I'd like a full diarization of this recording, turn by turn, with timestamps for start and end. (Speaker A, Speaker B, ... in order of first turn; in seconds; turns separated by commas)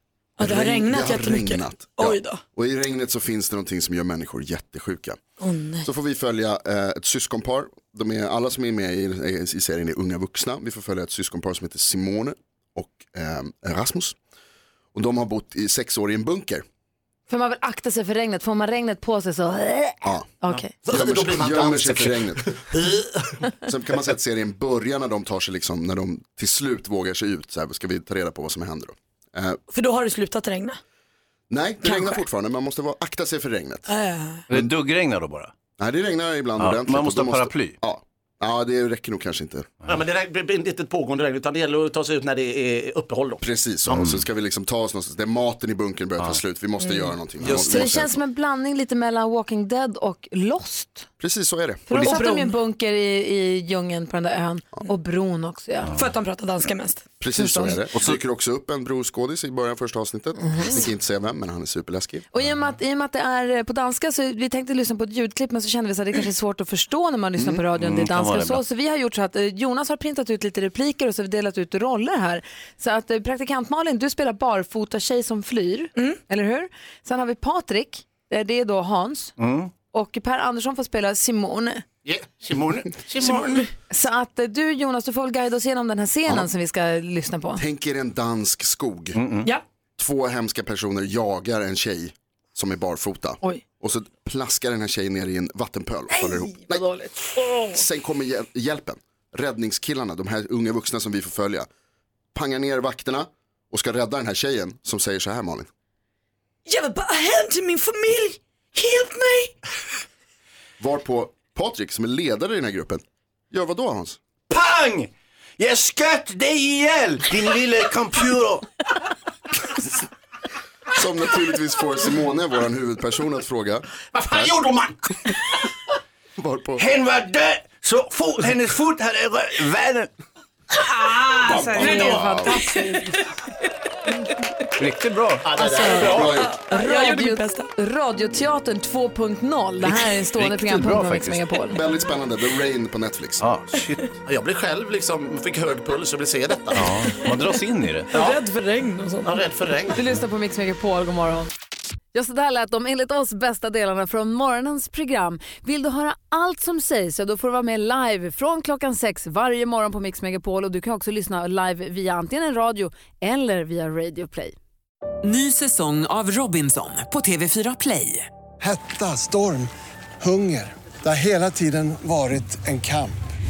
Speaker A: 0.4-2.4, Speaker B: 0.4-5.2, Speaker A: 5.4-5.9, Speaker B: 5.8-14.2, Speaker B: 14.9-16.6, Speaker C: 17.3-20.7, Speaker D: 20.5-23.2, Speaker B: 20.8-22.6, Speaker B: 23.6-29.6, Speaker A: 29.7-30.8, Speaker B: 31.5-33.9, Speaker A: 31.8-32.3, Speaker A: 33.9-34.4, Speaker E: 34.5-35.5, Speaker B: 35.8-39.8, Speaker E: 36.6-37.8, Speaker D: 39.9-43.4, Speaker B: 43.4-48.2, Speaker E: 43.9-44.2, Speaker A: 46.8-47.1, Speaker C: 47.4-51.1, Speaker E: 47.5-47.8, Speaker B: 51.2-52.1, Speaker C: 51.9-55.9, Speaker A: 51.9-52.5, Speaker A: 55.9-57.0, Speaker B: 57.2-62.3, Speaker C: 57.3-57.8, Speaker E: 57.9-58.2, Speaker C: 60.4-60.9, Speaker C: 62.3-79.4, Speaker E: 67.7-68.6, Speaker E: 79.4-79.7, Speaker C: 79.9-81.8, Speaker D: 82.0-83.7, Speaker C: 83.9-87.6, Speaker B: 87.6-89.2, Speaker E: 89.2-89.5, Speaker B: 90.0-96.9, Speaker C: 96.1-97.1, Speaker B: 97.7-101.7, Speaker B: 102.3-105.7, Speaker A: 106.7-109.5, Speaker B: 110.8-114.2, Speaker E: 114.5-118.7, Speaker B: 121.0-124.6, Speaker D: 124.1-125.0, Speaker B: 126.4-126.8, Speaker E: 126.8-130.1, Speaker E: 131.0-132.1, Speaker B: 131.5-132.5, Speaker C: 131.7-133.2, Speaker E: 134.8-135.5, Speaker D: 135.4-136.3, Speaker C: 135.6-136.0, Speaker A: 135.6-137.7, Speaker B: 135.8-136.6, Speaker C: 136.6-141.8, Speaker E: 139.8-141.4, Speaker B: 141.7-143.4, Speaker E: 143.4-144.0, Speaker D: 144.3-146.9, Speaker E: 146.7-148.1, Speaker A: 148.1-149.4, Speaker D: 149.2-150.0, Speaker C: 149.9-151.5, Speaker C: 152.1-164.6, Speaker F: 165.2-168.3, Speaker G: 168.6-173.2